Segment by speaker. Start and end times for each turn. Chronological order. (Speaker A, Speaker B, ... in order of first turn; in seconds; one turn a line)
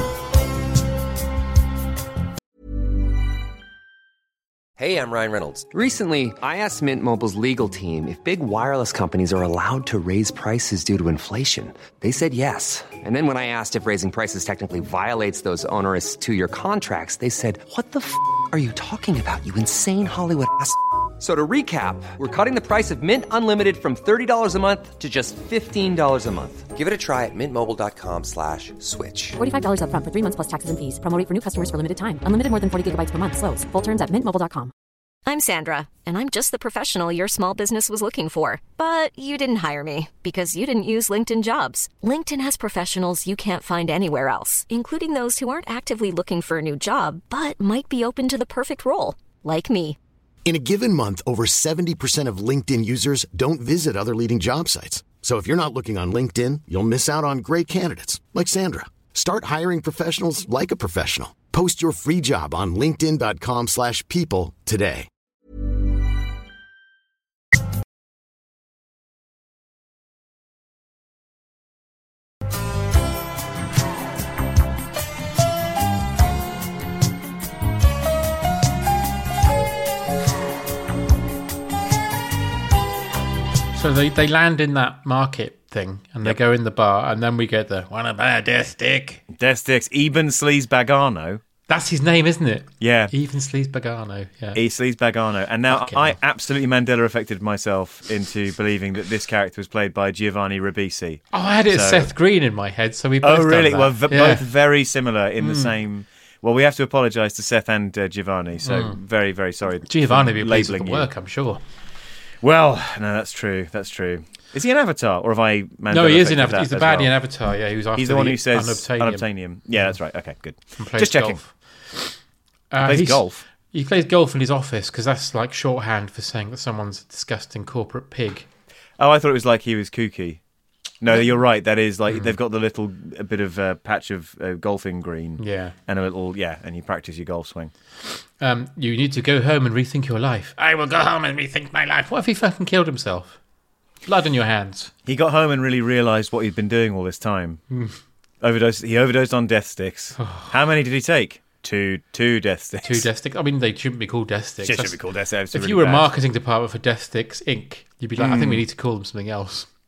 Speaker A: 4.8-29.4
Speaker B: 29.4-34.7
Speaker C: 35.2-50.0
Speaker D: 50.4-65.1
Speaker E: 83.7-89.2
Speaker F: 89.3-91.4
Speaker E: 91.7-94.6
Speaker F: 92.8-93.1
Speaker F: 94.5-102.1
Speaker E: 95.7-96.2
Speaker E: 101.3-104.4
Speaker F: 103.2-111.1
Speaker E: 105.4-105.7
Speaker E: 108.6-109.0
Speaker E: 109.9-111.6
Speaker F: 112.4-117.1
Speaker E: 115.9-119.9
Speaker F: 117.9-121.4
Speaker E: 120.8-122.1
Speaker E: 122.7-128.5
Speaker F: 122.8-123.4
Speaker F: 129.0-130.4
Speaker F: 131.0-137.7
Speaker E: 132.1-132.3
Speaker E: 135.4-135.7
Speaker E: 138.4-143.4
Speaker E: 144.0-144.9
Speaker F: 145.1-147.6
Speaker E: 147.7-147.9
Speaker F: 148.4-153.1
Speaker E: 150.2-150.5
Speaker E: 152.8-155.0
Speaker F: 154.6-156.1
Speaker E: 155.5-159.7
Speaker F: 158.2-158.6